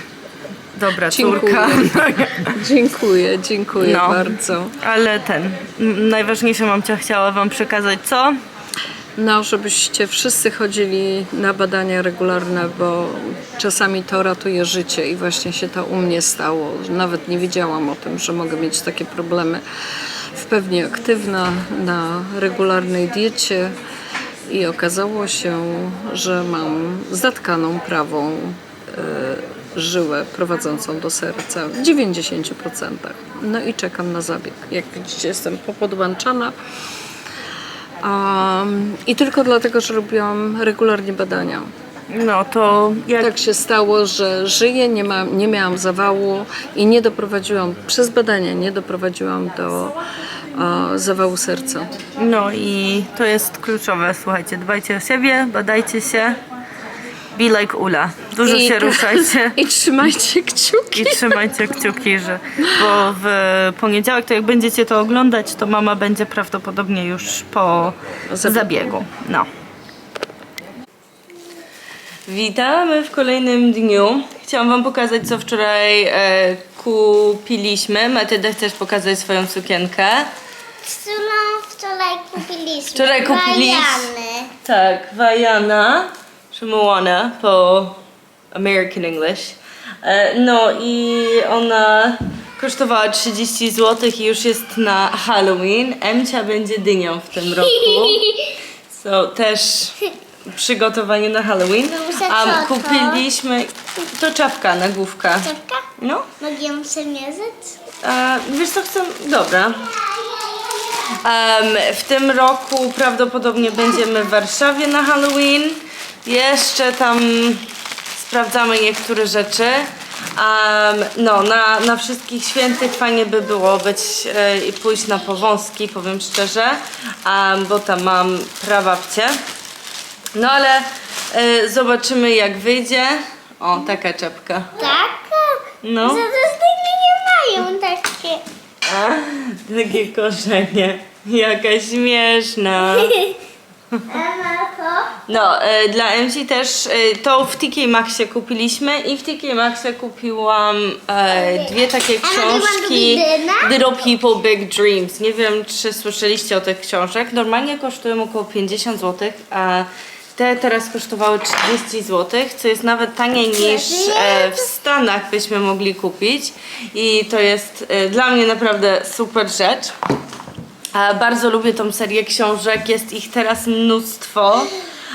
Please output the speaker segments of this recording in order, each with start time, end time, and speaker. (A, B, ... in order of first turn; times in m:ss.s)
0:00.7-0:02.5 A
0:01.1-0:04.7 B
0:03.8-0:08.3 A
0:09.2-0:19.6 B
0:20.3-0:23.7 B
0:24.5-0:36.6 B
0:38.0-0:41.7 B
0:42.1-0:43.4 A
0:43.2-0:50.0 B
0:50.6-0:52.0 B
0:52.2-0:56.4 A
0:57.3-0:59.6 A
0:58.4-1:01.4 B
1:00.9-1:09.5 A
1:08.3-1:08.9 B
1:12.3-1:20.3 A
1:20.8-1:24.5 C
1:22.9-1:28.0 A
1:28.5-1:46.4 A
1:41.9-1:43.2 C
1:45.4-1:45.9 C
1:46.4-1:47.8 C
1:48.0-1:50.0 A
1:51.2-2:09.4 A
2:10.3-2:14.8 A
2:14.8-2:18.4 C
2:15.8-2:16.2 A
2:18.9-2:23.3 A
2:23.0-2:23.4 C
2:24.1-2:25.3 C
2:25.3-2:49.9 A
2:32.2-2:33.7 C
2:43.6-2:44.6 C
2:50.9-2:54.8 A